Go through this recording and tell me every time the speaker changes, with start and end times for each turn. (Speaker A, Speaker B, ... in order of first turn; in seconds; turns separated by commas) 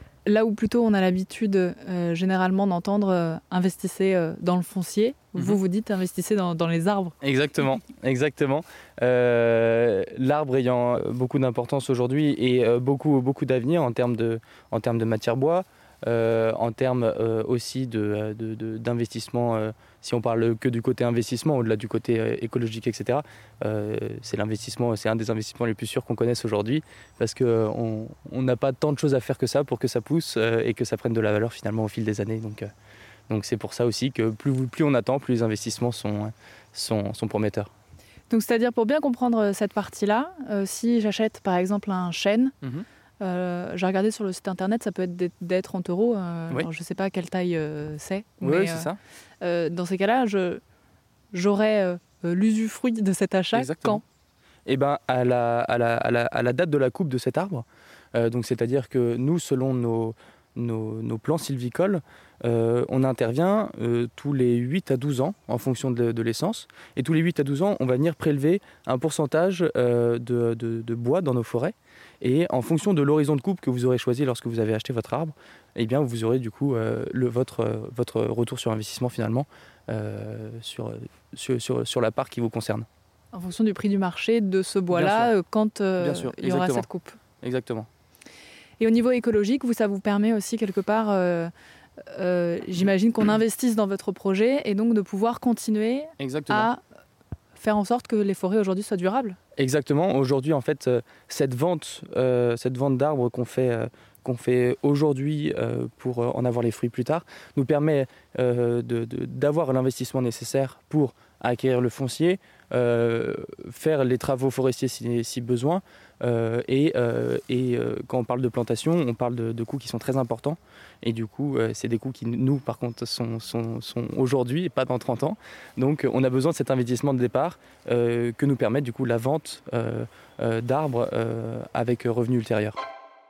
Speaker A: 0.2-7.1, Speaker B: 7.2-32.7, Speaker B: 33.3-37.7, Speaker A: 38.3-42.5, Speaker A: 43.2-50.6, Speaker B: 48.4-49.0, Speaker A: 51.3-54.0, Speaker B: 53.5-54.0, Speaker B: 54.6-82.9, Speaker A: 83.3-87.2, Speaker B: 84.9-85.3, Speaker B: 86.0-86.9, Speaker B: 87.4-87.9, Speaker A: 88.8-91.5, Speaker A: 92.0-96.8, Speaker B: 96.2-96.7, Speaker A: 97.5-99.4, Speaker B: 99.6-132.8